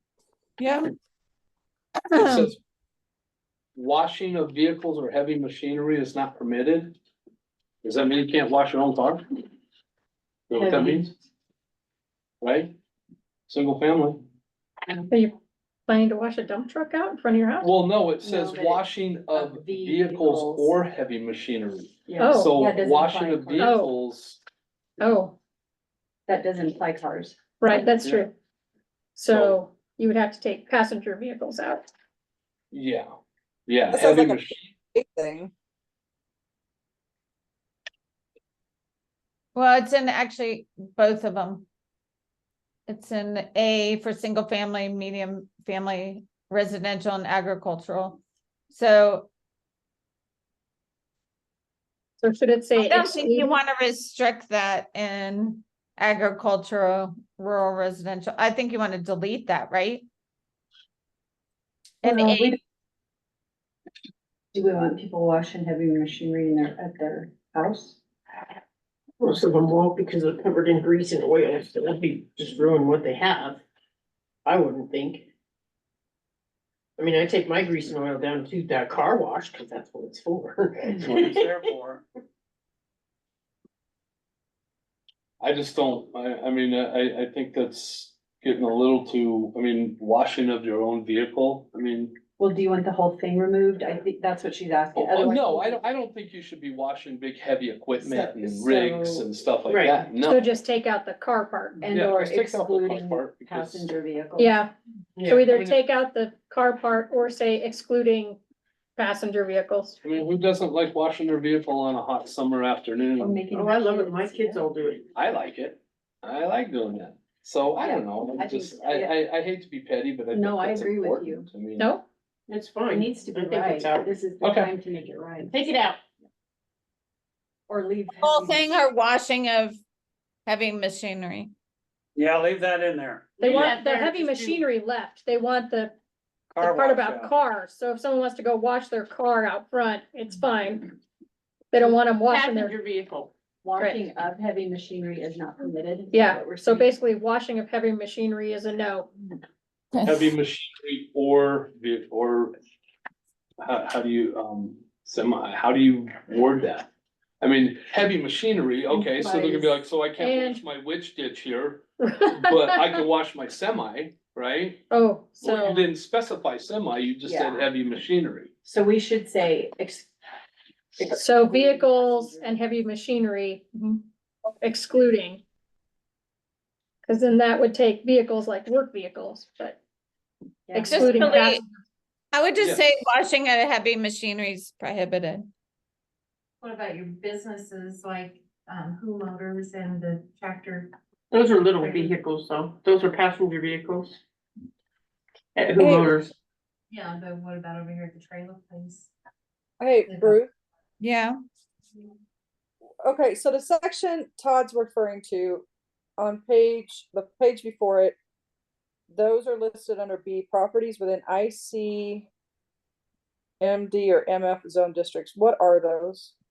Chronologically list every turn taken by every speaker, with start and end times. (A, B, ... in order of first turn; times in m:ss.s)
0:00.6-0:00.9 A
0:02.0-0:02.5 A
0:02.2-0:02.6 B
0:03.8-0:07.0 B
0:07.8-0:09.2 B
0:10.5-0:11.1 B
0:10.6-0:11.1 C
0:12.4-0:12.7 B
0:13.5-0:14.2 B
0:15.9-0:17.7 D
0:17.6-0:24.4 B
0:18.2-0:20.8 C
0:22.1-0:23.7 C
0:22.2-0:22.6 D
0:23.6-0:23.9 D
0:25.0-0:25.4 D
0:26.3-0:27.9 C
0:27.6-0:28.3 D
0:29.2-0:31.9 D
0:29.3-0:29.6 B
0:32.7-0:33.1 B
0:33.7-0:34.7 B
0:33.9-0:35.5 E
0:39.6-0:41.7 A
0:42.9-0:49.3 A
0:52.2-0:53.5 D
0:52.8-1:00.1 A
1:02.0-1:02.6 A
1:02.1-1:02.6 C
1:04.5-1:08.0 C
1:09.2-1:13.6 F
1:14.4-1:15.3 F
1:17.0-1:21.8 F
1:21.1-1:22.0 G
1:25.4-1:32.2 B
1:32.4-1:35.8 C
1:35.0-1:40.5 B
1:38.0-1:39.2 C
1:39.7-1:40.0 F
1:40.2-1:41.8 D
1:41.8-1:44.6 C
1:41.9-1:43.9 B
1:44.4-1:44.7 D
1:45.2-1:45.4 F
1:45.2-1:48.4 D
1:45.4-1:45.8 B
1:49.0-1:50.0 D
1:50.0-1:53.4 B
1:53.2-1:54.7 C
1:53.5-1:55.1 F
1:55.2-2:01.9 B
1:57.8-1:59.1 C
2:00.3-2:01.5 C
2:01.8-2:02.0 D
2:02.5-2:04.2 F
2:02.9-2:05.8 C
2:04.4-2:04.7 B
2:05.4-2:06.0 F
2:07.7-2:08.8 C
2:08.2-2:09.8 A
2:10.5-2:11.5 A
2:12.2-2:13.3 G
2:13.4-2:14.6 F
2:13.4-2:15.9 D
2:16.5-2:17.3 G
2:16.6-2:21.0 D
2:21.7-2:22.8 D
2:21.8-2:23.3 F
2:23.6-2:26.9 C
2:23.8-2:24.0 D
2:26.1-2:29.1 D
2:29.9-2:30.3 A
2:30.0-2:32.6 B
2:33.6-2:36.9 B
2:37.4-2:44.8 B
2:39.1-2:39.8 C
2:40.2-2:40.6 D
2:42.0-2:43.0 D
2:44.9-2:45.9 D
2:45.4-2:48.5 B
2:47.2-2:47.7 C
2:48.6-2:50.1 C
2:51.0-2:52.6 C
2:51.1-2:54.0 D
2:54.6-2:55.4 D
2:57.0-2:59.8 D
3:00.7-3:01.3 C
3:00.7-3:01.6 D
3:00.9-3:01.6 A
3:02.3-3:05.5 A
3:02.6-3:02.8 B
3:06.6-3:10.9 H
3:11.3-3:14.2 F
3:15.6-3:16.3 F
3:15.8-3:16.2 E
3:16.9-3:19.1 H
3:19.8-3:20.5 E
3:20.1-3:20.4 H
3:21.0-3:21.4 A
3:23.0-3:25.6 E
3:26.2-3:28.2 E
3:29.1-3:32.3 E
3:33.6-3:36.3 E